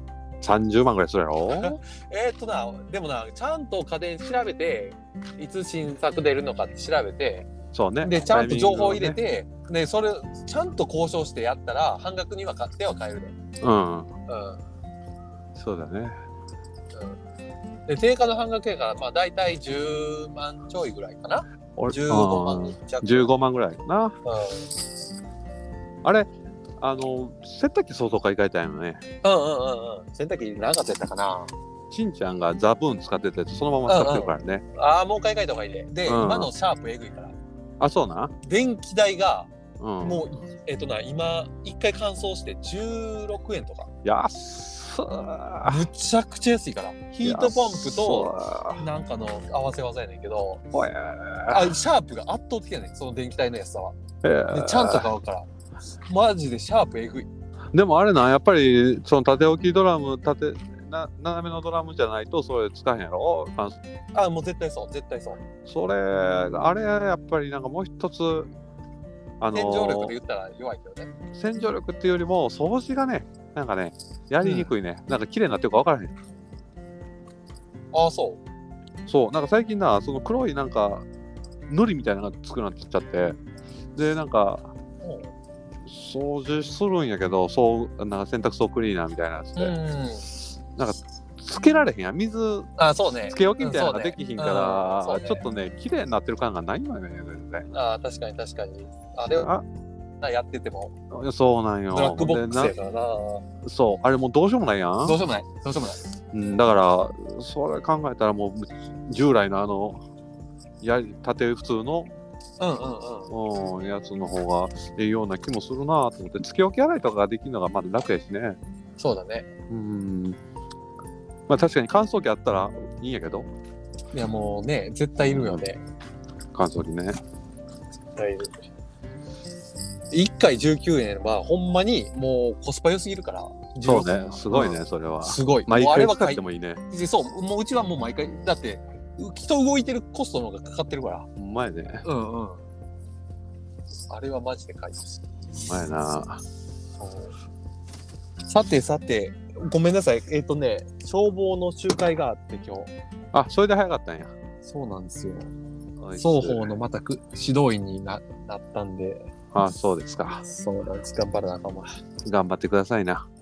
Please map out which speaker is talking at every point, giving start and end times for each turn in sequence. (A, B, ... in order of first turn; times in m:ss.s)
0:00.4-0:01.8 A
0:01.5-0:07.5 B
0:07.7-0:09.2 A
0:08.0-0:13.4 B
0:13.6-0:14.1 A
0:14.3-0:14.6 B
0:15.6-0:16.1 A
0:17.9-0:23.3 B
0:21.8-0:24.2 A
0:24.2-0:24.7 B
0:26.0-0:29.0 A
0:29.2-0:31.5 B
0:31.9-0:34.6 A
0:33.9-0:37.4 B
0:36.1-0:36.5 A
0:37.8-0:38.3 A
0:38.4-0:43.9 B
0:39.8-0:40.2 A
0:44.0-0:45.9 A
0:45.6-0:50.6 B
0:47.2-0:48.8 A
0:50.7-0:51.7 A
0:51.5-0:54.0 B
0:54.2-0:55.1 A
0:54.5-0:55.5 B
0:56.1-0:57.3 B
0:57.7-1:03.8 A
1:04.1-1:05.4 B
1:05.7-1:08.5 A
1:09.4-1:10.1 A
1:09.5-1:11.1 B
1:11.3-1:16.1 A
1:14.4-1:14.7 B
1:17.9-1:18.4 B
1:19.1-1:21.0 A
1:21.7-1:23.4 A
1:24.0-1:24.7 A
1:25.0-1:25.3 B
1:25.8-1:29.8 A
1:29.6-1:30.3 B
1:30.8-1:32.7 A
1:32.8-1:35.4 B
1:33.3-1:37.7 A
1:37.7-1:39.5 B
1:39.4-1:39.6 A
1:40.2-1:40.9 B
1:41.1-1:42.8 A
1:41.9-1:43.4 B
1:43.6-1:45.2 A
1:45.0-1:46.0 B
1:46.3-1:50.0 A
1:50.8-1:52.1 A
1:52.6-1:53.3 B
1:53.3-1:58.6 A
1:59.0-1:59.5 B
1:59.7-2:00.4 A
2:01.5-2:03.5 A
2:04.1-2:05.8 B
2:05.2-2:05.7 A
2:06.5-2:07.2 A
2:08.1-2:08.6 B
2:10.1-2:21.3 B
2:13.8-2:16.8 A
2:21.4-2:22.1 A
2:22.0-2:22.6 B
2:24.1-2:25.3 B
2:25.5-2:26.4 A
2:27.0-2:27.3 B
2:28.5-2:32.9 B
2:33.3-2:34.3 A
2:34.6-2:35.5 B
2:36.0-2:36.7 A
2:36.2-2:39.3 B
2:39.5-2:40.4 A
2:40.4-2:41.9 B
2:42.2-2:43.2 A